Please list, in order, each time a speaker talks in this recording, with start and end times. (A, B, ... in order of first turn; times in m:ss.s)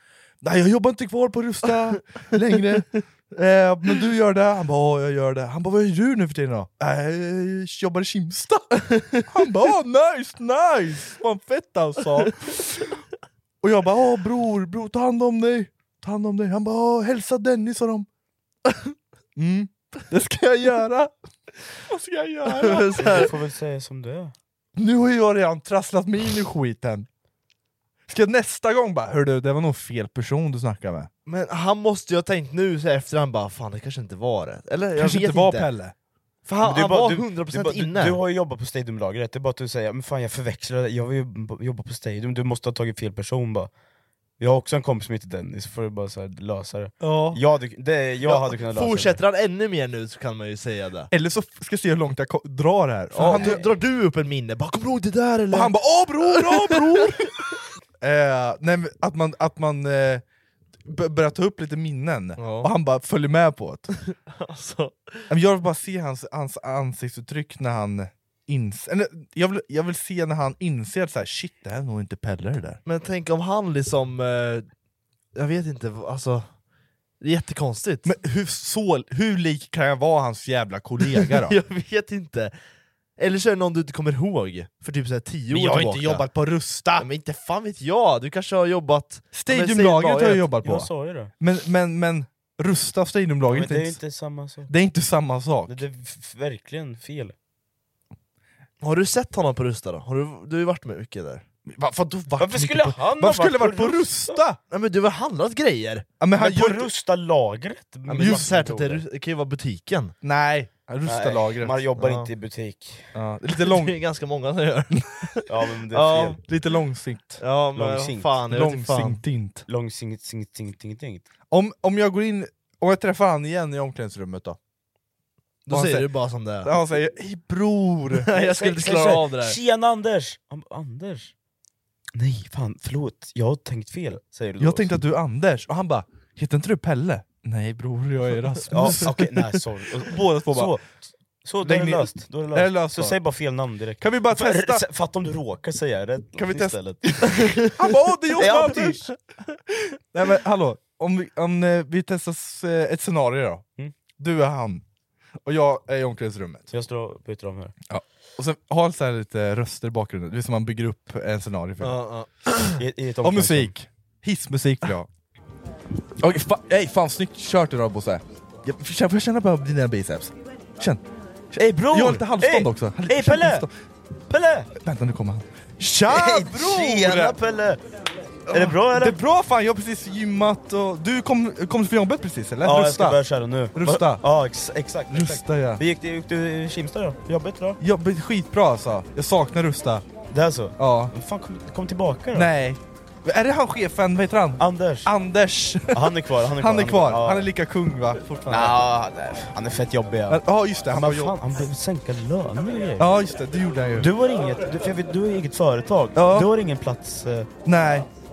0:00.4-0:12.9 A
0:08.9-0:09.2 B
0:13.6-0:18.1 A
0:19.4-0:21.1 A
0:21.9-0:23.3 A
0:22.5-0:23.3 B
0:23.0-0:24.3 C
0:24.8-0:27.1 A
0:28.1-0:31.1 A
0:31.2-0:35.7 B
0:35.0-0:35.9 A
0:36.4-0:38.2 B
0:36.6-0:43.7 C
0:44.4-0:49.2 C
0:47.0-0:47.4 A
0:48.3-0:51.1 B
0:51.1-0:53.6 A
0:53.1-0:55.7 B
0:53.3-0:53.7 C
0:55.5-0:57.3 A
0:56.2-0:57.1 B
0:58.0-1:00.2 A
1:00.8-1:03.9 A
1:02.4-1:02.7 B
1:04.1-1:05.1 B
1:05.3-1:12.8 A
1:12.8-1:14.6 B
1:15.3-1:16.5 B
1:17.2-1:18.1 B
1:18.0-1:21.6 A
1:21.2-1:22.5 B
1:23.2-1:26.2 B
1:25.5-1:27.1 A
1:27.0-1:30.4 B
1:29.3-1:34.0 A
1:30.6-1:31.3 C
1:33.5-1:34.7 C
1:34.7-1:35.7 A
1:35.7-1:37.3 C
1:38.8-1:41.4 B
1:41.7-1:44.6 A
1:42.4-1:44.4 C
1:44.7-1:46.1 B
1:46.2-1:46.9 A
1:46.4-1:49.0 C
1:48.1-1:50.1 B
1:48.2-1:48.5 A
1:50.2-1:51.8 A
1:51.0-1:53.1 C
1:52.0-1:52.3 B
1:53.1-1:53.9 A
1:53.6-1:56.4 B
1:55.5-1:56.4 C
1:56.5-1:57.4 A
1:57.4-1:59.2 B
1:57.7-1:58.3 C
1:58.5-1:59.6 A
1:59.7-2:01.2 C
2:01.5-2:04.6 A
2:05.6-2:06.7 B
2:05.7-2:06.1 A
2:06.6-2:08.3 A
2:08.2-2:09.6 B
2:08.4-2:11.3 C
2:12.1-2:14.9 C
2:14.6-2:19.2 A
2:18.7-2:27.6 C
2:20.0-2:20.7 A
2:21.6-2:23.2 A
2:24.0-2:24.8 A
2:26.4-2:29.0 A
2:28.4-2:29.0 C
2:30.1-2:33.6 A
2:34.2-2:34.8 A
2:35.4-2:36.6 A
2:36.7-2:37.7 C
2:37.9-2:42.0 A
2:41.8-2:42.7 B
2:42.8-2:43.7 C
2:43.2-2:45.1 A
2:46.2-2:51.0 A
2:51.5-2:53.7 A
2:51.6-2:53.6 C
2:54.3-2:54.7 C
2:54.8-2:57.4 A
2:56.1-2:57.8 C
2:58.5-3:03.2 A
2:58.5-2:59.2 C
3:02.6-3:07.8 C
3:03.7-3:04.2 A
3:05.1-3:05.8 A
3:07.8-3:10.0 A
3:10.3-3:12.5 C
3:10.8-3:11.1 A
3:12.3-3:18.8 A
3:14.6-3:15.1 C
3:15.9-3:17.5 C
3:18.5-3:23.1 C
3:20.3-3:21.4 A
3:23.0-3:24.1 A
3:24.0-3:27.5 C
3:26.1-3:26.5 A
3:27.6-3:28.1 A